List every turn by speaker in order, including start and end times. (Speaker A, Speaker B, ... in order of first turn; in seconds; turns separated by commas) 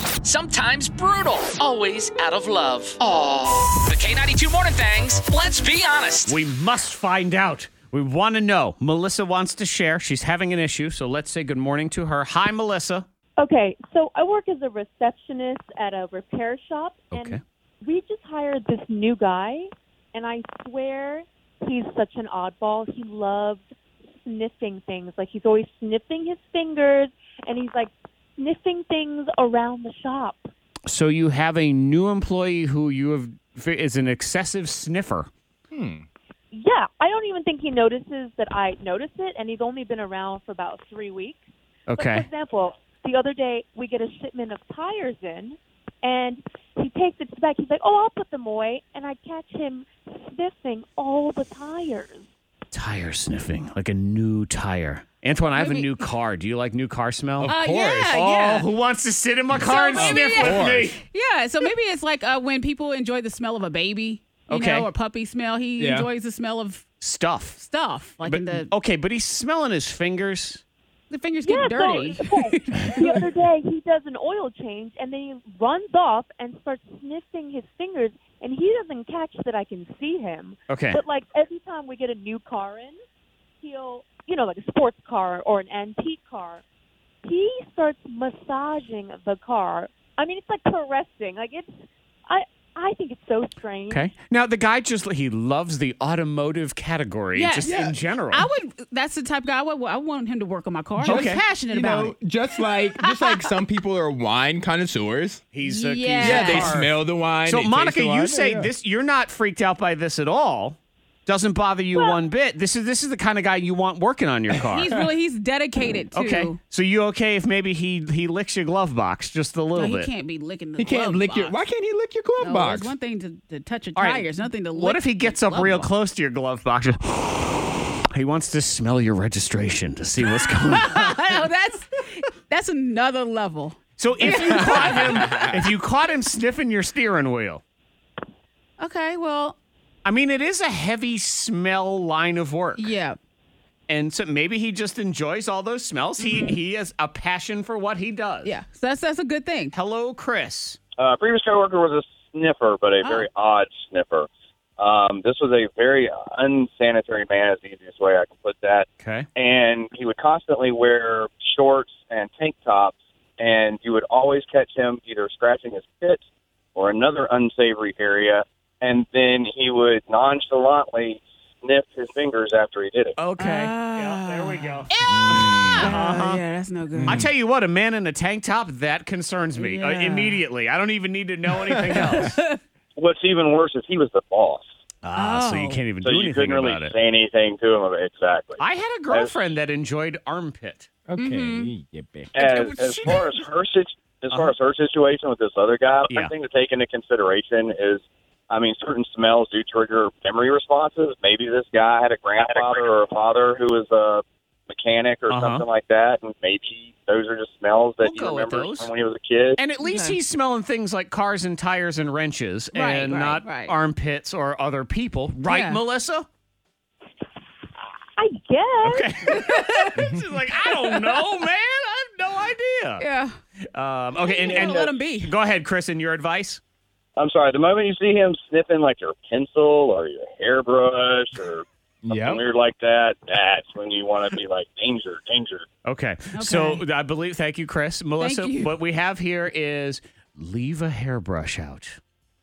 Speaker A: 0.2-6.4, Speaker B: 6.3-13.1, Speaker C: 13.4-23.7, Speaker B: 17.1-17.4, Speaker C: 24.2-30.5, Speaker B: 30.9-35.3, Speaker D: 35.7-36.0, Speaker C: 36.5-41.4, Speaker B: 41.9-42.3, Speaker C: 41.9-52.2, Speaker B: 52.7-57.5, Speaker E: 55.5-56.0, Speaker D: 57.4-58.2, Speaker E: 57.5-58.7, Speaker B: 58.1-61.0, Speaker D: 59.5-60.9, Speaker E: 59.5-66.9, Speaker B: 64.5-64.9, Speaker D: 65.8-66.1, Speaker B: 67.0-67.6, Speaker E: 67.5-68.7, Speaker B: 68.2-70.6, Speaker E: 71.1-73.2, Speaker C: 71.4-83.0, Speaker B: 80.7-81.0, Speaker C: 83.6-86.6, Speaker C: 87.2-91.7, Speaker C: 92.3-94.1, Speaker B: 93.9-98.5, Speaker E: 97.3-103.5, Speaker D: 97.6-98.0, Speaker D: 101.0-105.4, Speaker B: 101.0-101.4, Speaker B: 105.5-114.9, Speaker E: 105.6-106.8, Speaker D: 106.2-108.7, Speaker E: 114.6-116.6, Speaker B: 116.1-120.1, Speaker E: 119.7-121.6, Speaker D: 120.8-122.9, Speaker E: 122.4-125.9, Speaker B: 123.9-127.5, Speaker B: 128.1-131.1, Speaker E: 130.2-135.2, Speaker B: 134.0-137.6, Speaker D: 135.1-135.5, Speaker E: 138.8-139.6, Speaker B: 140.0-142.9, Speaker E: 142.8-143.2, Speaker B: 143.9-148.5, Speaker E: 146.2-146.6, Speaker E: 148.4-149.7, Speaker B: 149.7-150.8, Speaker F: 151.0-166.2, Speaker E: 153.0-153.3, Speaker B: 159.0-159.3, Speaker F: 166.7-173.2, Speaker B: 173.2-176.4, Speaker E: 173.4-177.2, Speaker D: 175.1-175.9, Speaker D: 176.9-177.3, Speaker B: 177.1-182.3, Speaker E: 179.5-180.4, Speaker E: 181.9-182.6, Speaker F: 182.9-184.6, Speaker B: 185.0-186.9, Speaker E: 185.1-185.8, Speaker F: 186.0-189.4, Speaker B: 188.6-190.9, Speaker D: 191.1-192.3, Speaker E: 191.2-191.7, Speaker B: 192.3-193.4, Speaker F: 192.3-209.6, Speaker B: 205.3-205.6, Speaker B: 208.0-208.9, Speaker B: 209.6-216.2, Speaker E: 209.8-210.2, Speaker E: 212.7-213.8, Speaker E: 215.4-215.8, Speaker C: 218.2-219.4, Speaker B: 218.8-223.0, Speaker E: 223.0-223.4, Speaker B: 223.7-226.6, Speaker E: 224.2-225.3, Speaker F: 227.2-235.7, Speaker D: 232.1-232.4, Speaker B: 235.8-242.0, Speaker E: 236.3-236.8, Speaker E: 238.2-238.7